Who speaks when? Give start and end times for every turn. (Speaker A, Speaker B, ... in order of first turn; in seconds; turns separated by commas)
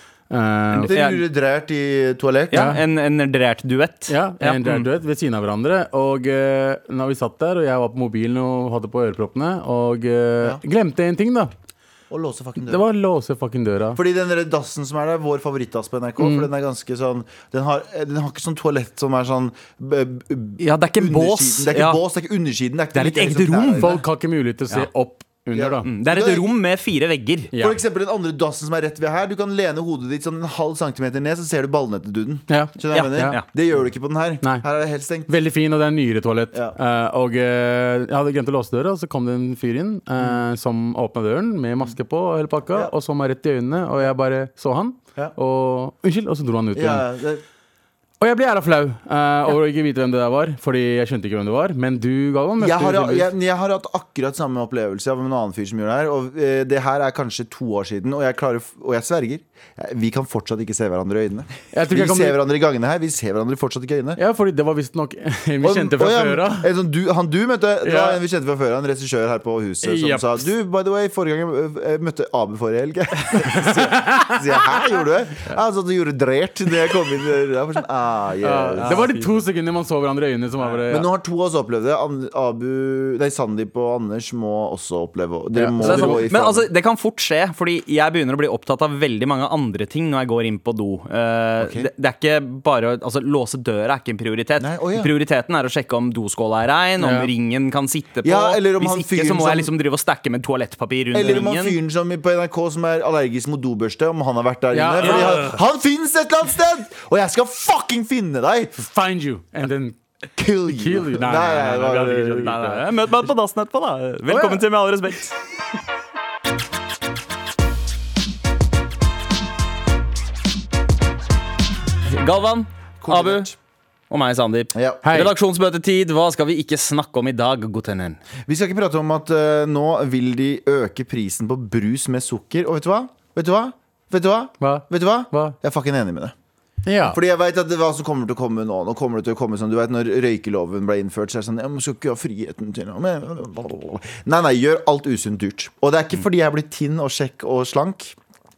Speaker A: 0.3-0.9, Speaker B: 0.7-1.2, Speaker C: 0.9-2.7, Speaker B: 2.5-4.9, Speaker A: 2.5-2.8, Speaker A: 4.1-11.5, Speaker C: 12.1-12.8, Speaker A: 12.6-14.0, Speaker C: 13.9-24.0, Speaker A: 16.2-16.5, Speaker B: 20.6-22.0, Speaker B: 22.9-24.0, Speaker A: 23.8-25.9, Speaker C: 25.5-26.5, Speaker B: 25.9-27.5, Speaker A: 27.5-27.8, Speaker C: 27.6-35.3, Speaker A: 32.5-33.4, Speaker B: 32.9-33.4, Speaker A: 35.3-47.1, Speaker C: 46.8-47.4, Speaker A: 48.2-53.3, Speaker C: 52.6-64.2, Speaker A: 61.7-62.4, Speaker A: 64.2-66.7, Speaker C: 65.6-79.1, Speaker A: 67.8-68.2, Speaker A: 69.8-70.5, Speaker A: 73.4-74.8, Speaker A: 78.4-81.1, Speaker B: 78.8-79.4, Speaker C: 80.9-86.7, Speaker A: 85.5-86.3, Speaker B: 85.8-101.8, Speaker C: 91.6-91.9, Speaker C: 94.6-95.1, Speaker A: 97.0-97.3, Speaker C: 98.2-99.7, Speaker C: 101.1-108.7, Speaker A: 104.7-105.6, Speaker A: 108.8-110.0, Speaker C: 110.4-112.8, Speaker A: 110.6-112.8, Speaker B: 112.4-115.3, Speaker A: 114.3-114.6, Speaker B: 122.1-123.5, Speaker C: 123.0-123.6, Speaker B: 124.1-128.2, Speaker C: 124.8-125.0, Speaker A: 125.0-125.3, Speaker C: 128.5-136.3, Speaker A: 134.6-135.6, Speaker A: 136.8-137.2, Speaker C: 137.1-148.2